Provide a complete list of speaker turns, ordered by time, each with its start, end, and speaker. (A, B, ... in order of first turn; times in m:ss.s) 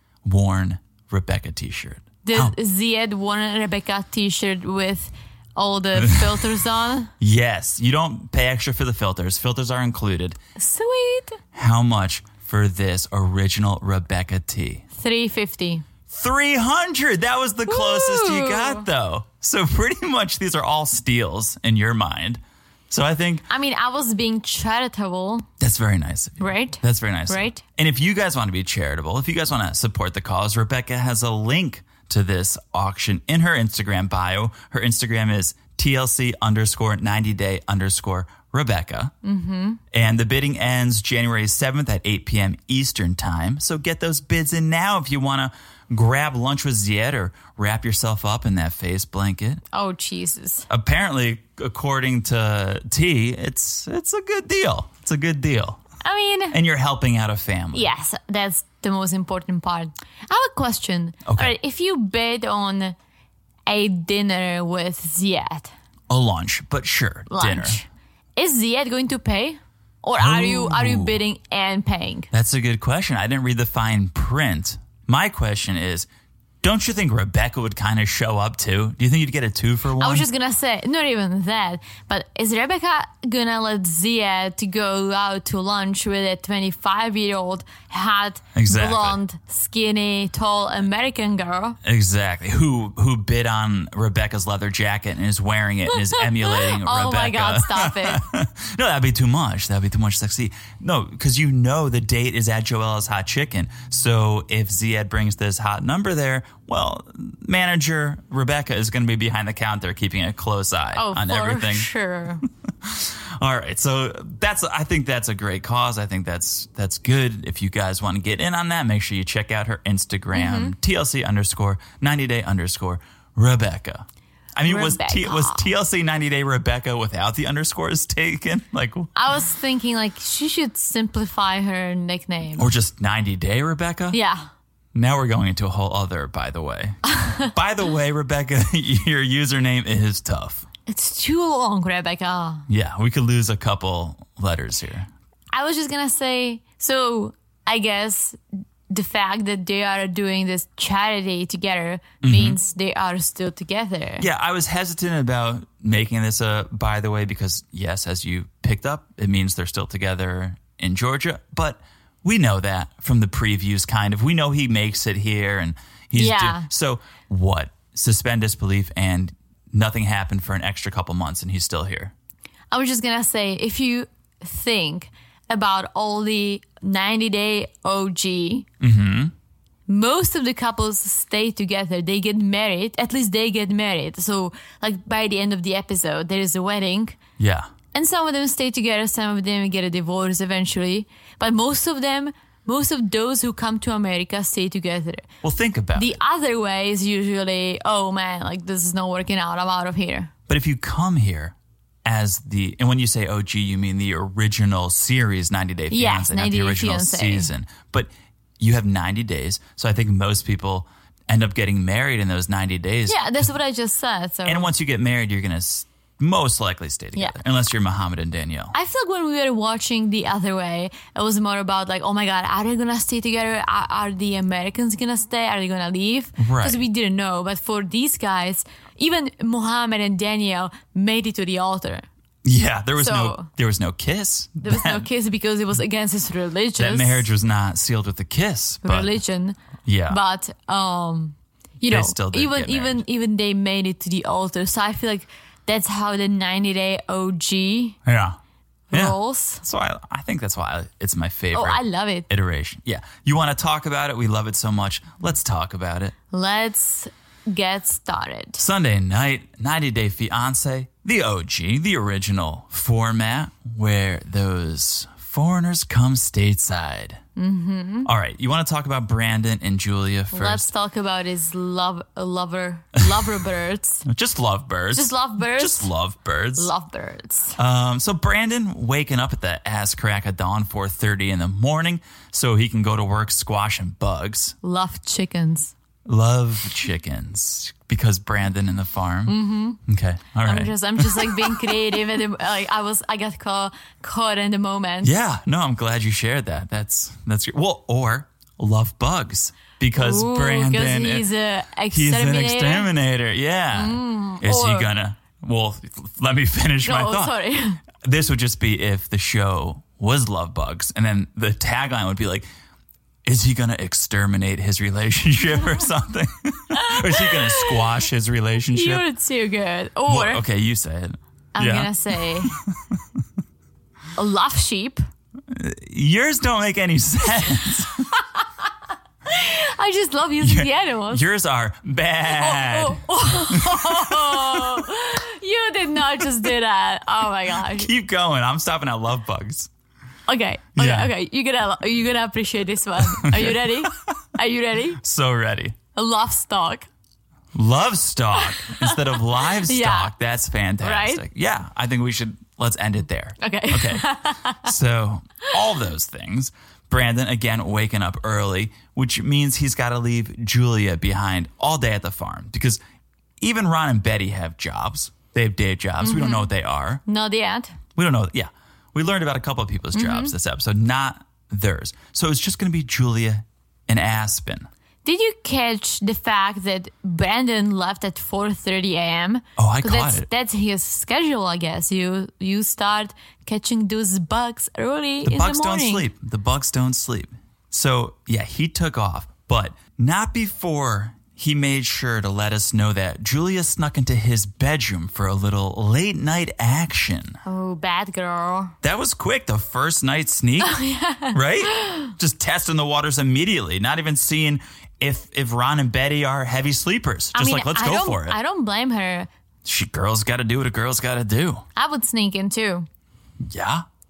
0:00.2-0:02.5 A
0:02.2-0:07.1 B
0:06.0-0:06.5 A
0:07.2-0:10.4 A
0:10.6-0:11.4 B
0:11.5-0:14.8 A
0:14.9-0:15.8 B
0:16.1-0:23.5 A
0:17.7-0:18.8 B
0:23.5-0:25.5 B
0:25.6-0:39.1 A
0:26.4-0:27.6 B
0:39.2-0:39.8 B
0:39.9-0:49.6 A
0:49.7-0:50.7 B
0:50.7-0:55.8 A
0:56.0-0:56.6 B
0:56.5-0:57.9 A
0:57.7-1:02.9 B
1:01.2-1:01.6 A
1:03.7-1:05.7 B
1:06.1-1:07.8 A
1:07.3-1:12.3 B
1:10.2-1:11.2 A
1:12.3-1:16.1 A
1:16.6-1:20.3 A
1:20.0-1:31.8 B
1:28.5-1:29.2 A
1:31.8-1:51.9 A
1:35.9-1:38.2 B
1:50.9-1:52.4 B
1:52.8-2:09.1 A
2:00.3-2:00.7 B
2:04.6-2:05.7 B
2:09.1-2:12.7 B
2:12.6-2:14.2 A
2:14.1-2:14.5 B
2:14.9-2:20.7 A
2:17.1-2:17.5 B
2:20.9-2:22.6 B
2:22.7-2:25.1 A
2:25.5-2:34.3 B
2:32.2-2:32.6 A
2:34.2-2:52.1 A
2:46.1-2:46.7 B
2:52.7-2:58.7 B
2:58.8-2:59.3 A
2:59.9-3:07.2 B
3:07.4-3:07.7 A
3:07.9-3:15.3 B
3:15.4-3:16.2 A
3:15.9-3:20.3 B
3:20.5-3:33.5 A
3:25.9-3:27.5 B
3:33.1-3:34.7 B
3:34.4-3:38.7 A
3:38.7-3:52.1 B
3:46.4-3:46.8 A
3:52.4-3:55.1 A
3:53.0-3:53.5 B
3:54.6-3:57.3 B
3:56.8-3:59.2 A
3:58.8-4:08.0 B
3:59.8-4:00.2 A
4:01.9-4:03.0 A
4:08.0-4:08.4 A
4:08.9-4:09.6 B
4:08.9-4:16.1 A
4:11.5-4:12.3 B
4:16.3-4:18.6 B
4:18.6-4:27.2 A
4:27.4-4:28.1 B
4:28.0-4:30.7 A
4:30.3-4:34.0 B
4:34.0-4:36.7 A
4:34.9-4:35.9 B
4:36.6-4:37.6 B
4:37.6-4:44.6 A
4:44.6-4:45.7 B
4:46.0-4:51.8 A
4:49.3-4:49.8 B
4:50.4-4:55.1 B
4:55.0-5:01.3 A
4:59.9-5:02.9 B
5:01.9-5:07.4 A
5:03.7-5:04.9 B
5:06.8-5:07.8 B
5:07.9-5:12.5 A
5:13.2-5:19.0 A
5:16.7-5:17.7 B
5:18.7-5:20.4 B
5:20.1-5:23.0 A
5:21.5-5:22.5 B
5:24.2-5:25.0 B
5:25.5-5:28.1 A
5:29.2-5:31.2 B
5:30.4-5:34.9 A
5:32.3-5:37.9 B
5:37.6-5:39.7 A
5:40.3-5:45.0 B
5:40.8-5:41.1 A
5:43.0-5:43.9 A
5:45.0-5:45.8 A
5:45.9-5:46.9 B
5:47.5-5:54.1 A
5:48.5-5:50.1 B
5:50.8-5:51.2 B
5:53.4-5:54.7 B
5:54.6-6:02.8 A
6:03.4-6:07.0 A
6:06.0-6:06.5 B
6:07.0-6:07.8 B
6:08.0-6:14.7 A
6:09.9-6:10.3 B
6:15.0-6:26.1 B
6:19.6-6:20.3 A
6:25.2-6:37.4 A
6:37.4-6:38.8 B
6:38.8-6:40.8 A
6:40.6-6:42.1 B
6:41.3-6:48.4 A
6:47.3-6:49.3 B
6:49.6-6:51.6 A
6:51.8-6:52.9 B
6:53.4-6:53.8 A